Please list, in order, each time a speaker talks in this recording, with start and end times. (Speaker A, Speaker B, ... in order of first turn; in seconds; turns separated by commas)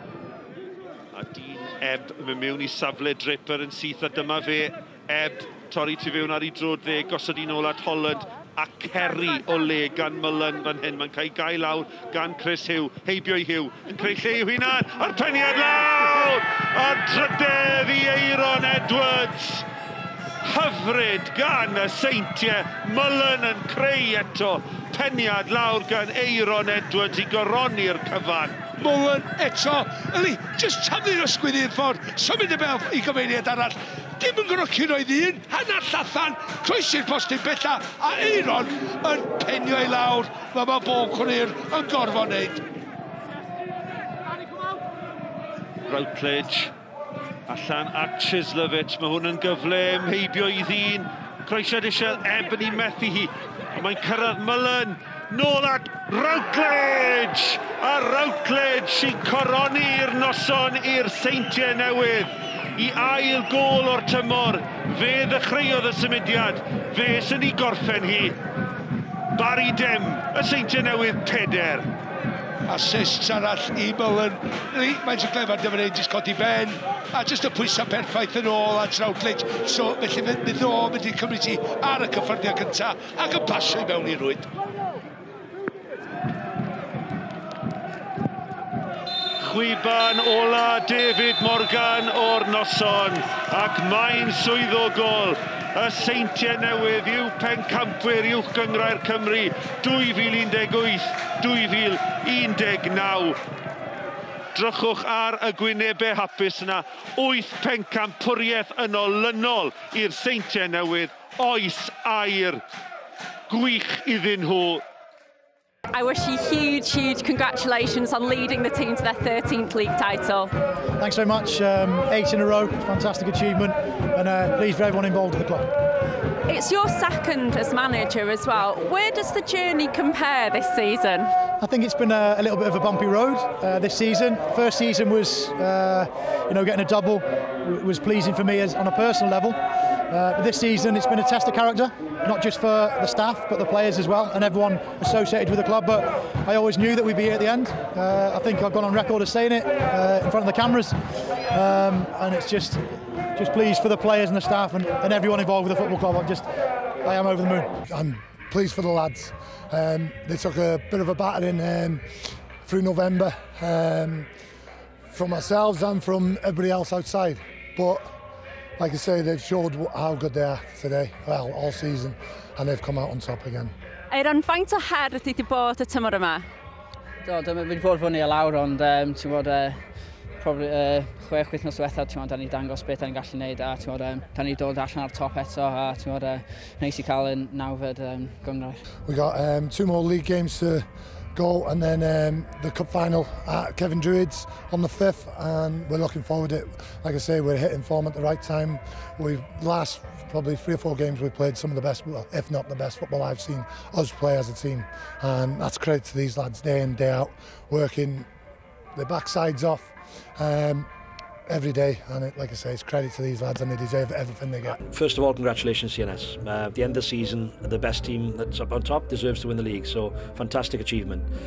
Speaker A: 1.1-19.7, Speaker A: 20.4-28.6, Speaker B: 28.8-42.6, Speaker A: 45.9-46.7, Speaker A: 47.5-68.3, Speaker A: 69.3-71.9, Speaker B: 72.7-84.5, Speaker A: 89.4-103.4, Speaker A: 104.5-112.6, Speaker A: 113.5-114.8, Speaker C: 115.9-120.5, Speaker D: 121.0-125.7, Speaker C: 126.5-131.3, Speaker D: 131.6-139.6, Speaker D: 140.1-151.0, Speaker D: 151.5-156.5, Speaker D: 157.0-157.8, Speaker E: 157.9-162.0, Speaker E: 162.6-164.3, Speaker E: 165.1-168.1, Speaker E: 168.8-173.7, Speaker C: 174.1-176.5, Speaker F: 177.2-179.8, Speaker F: 180.4-188.8, Speaker E: 189.1-190.8, Speaker E: 191.3-208.3, Speaker E: 209.0-210.9, Speaker E: 211.5-214.8, Speaker G: 214.9-221.3